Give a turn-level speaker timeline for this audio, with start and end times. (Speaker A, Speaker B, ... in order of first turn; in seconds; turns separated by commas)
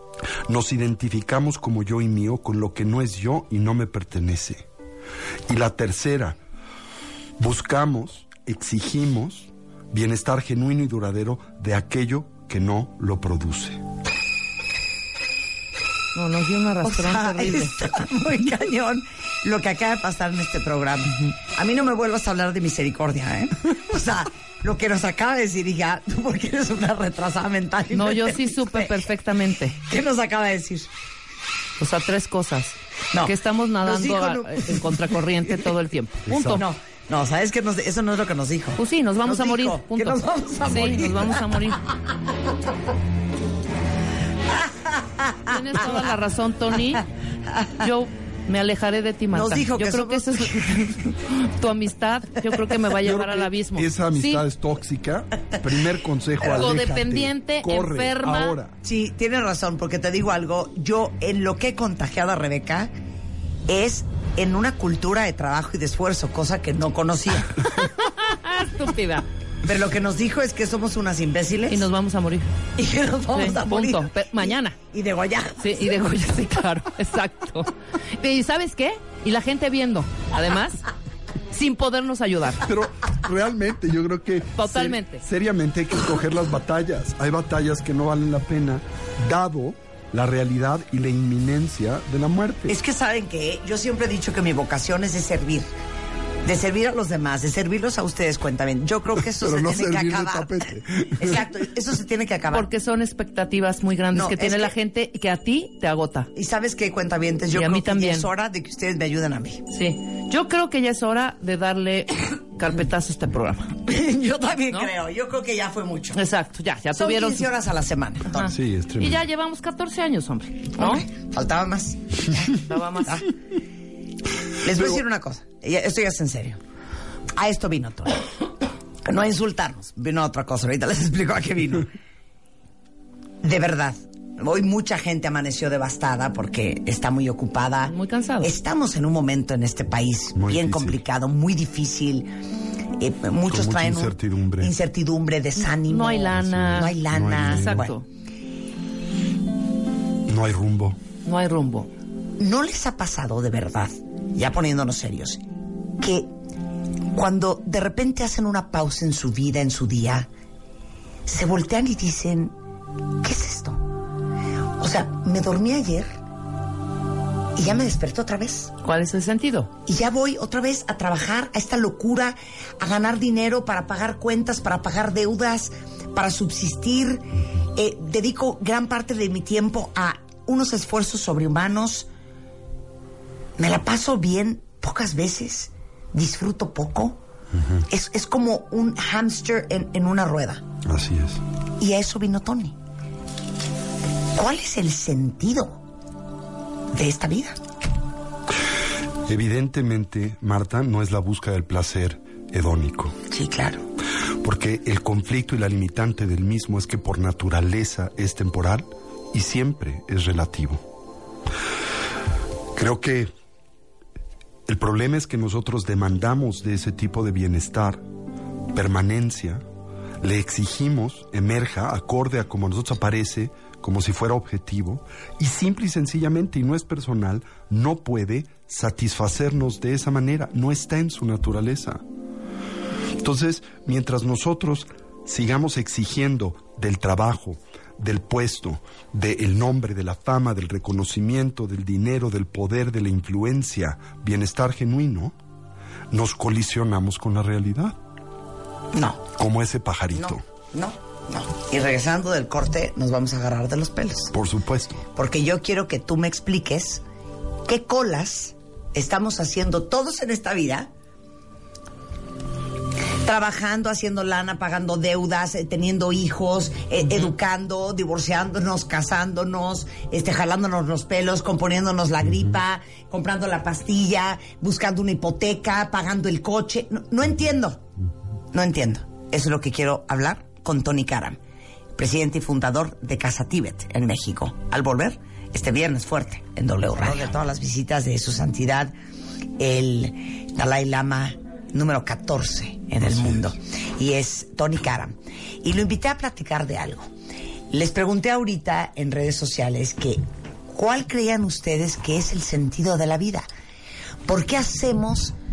Speaker A: 0.5-4.7, Speaker A: 5.5-6.4, Speaker A: 7.4-13.8, Speaker B: 16.1-17.8, Speaker C: 16.8-28.9, Speaker B: 27.9-29.8, Speaker C: 29.8-30.9, Speaker B: 31.8-36.6, Speaker C: 33.1-35.5, Speaker A: 36.3-36.6, Speaker C: 36.5-41.4, Speaker B: 38.8-41.8, Speaker C: 45.2-45.5, Speaker B: 45.5-47.1, Speaker B: 47.7-54.4, Speaker C: 49.3-51.1, Speaker A: 53.0-58.8, Speaker B: 56.4-58.5, Speaker C: 58.8-62.9, Speaker C: 63.7-67.8, Speaker B: 67.8-69.3, Speaker C: 69.7-71.9, Speaker B: 71.7-72.5, Speaker C: 72.8-75.9, Speaker B: 73.3-74.8, Speaker B: 75.6-80.9, Speaker B: 81.5-82.6, Speaker A: 82.6-92.8, Speaker B: 84.6-85.2, Speaker C: 92.7-95.7, Speaker C: 96.4-102.7, Speaker A: 99.3-101.5, Speaker B: 102.5-106.3, Speaker C: 104.1-104.7, Speaker C: 106.3-109.6, Speaker B: 107.5-108.3, Speaker B: 109.7-113.8, Speaker C: 113.9-116.2, Speaker B: 116.1-117.5, Speaker C: 117.0-118.5, Speaker B: 118.3-121.0, Speaker A: 118.5-119.2, Speaker C: 120.8-123.3, Speaker B: 122.5-123.2, Speaker C: 124.6-126.6, Speaker C: 127.4-128.2, Speaker C: 129.0-131.9, Speaker C: 133.4-142.3, Speaker B: 137.8-138.5, Speaker A: 140.3-141.0, Speaker C: 143.0-148.0, Speaker A: 143.5-144.7, Speaker B: 145.8-148.0, Speaker A: 146.4-147.9, Speaker A: 150.3-151.0, Speaker B: 151.2-151.9, Speaker C: 152.4-155.4, Speaker C: 156.0-156.3, Speaker C: 157.1-160.3, Speaker C: 161.3-162.5, Speaker C: 163.2-163.9, Speaker C: 164.8-166.2, Speaker C: 167.6-168.7, Speaker B: 168.8-169.7, Speaker C: 169.8-182.1, Speaker C: 183.6-187.2, Speaker A: 187.5-187.8, Speaker C: 187.9-190.6, Speaker A: 190.8-191.4, Speaker C: 191.8-192.8, Speaker C: 194.4-195.8, Speaker C: 196.9-197.6, Speaker A: 199.3-203.2, Speaker C: 203.3-203.8, Speaker A: 204.4-210.8, Speaker A: 212.7-213.3, Speaker A: 214.7-218.0, Speaker A: 218.7-219.6, Speaker A: 220.2-232.0, Speaker A: 233.2-245.4, Speaker A: 246.1-248.0, Speaker C: 248.9-249.2, Speaker A: 249.3-250.4, Speaker C: 250.2-254.3, Speaker A: 254.3-255.0, Speaker C: 255.1-257.0, Speaker C: 257.6-260.9, Speaker C: 263.2-277.9, Speaker C: 278.5-281.4, Speaker C: 282.0-288.9, Speaker C: 289.6-297.1, Speaker A: 293.0-293.5, Speaker C: 297.7-303.5, Speaker C: 304.3-305.4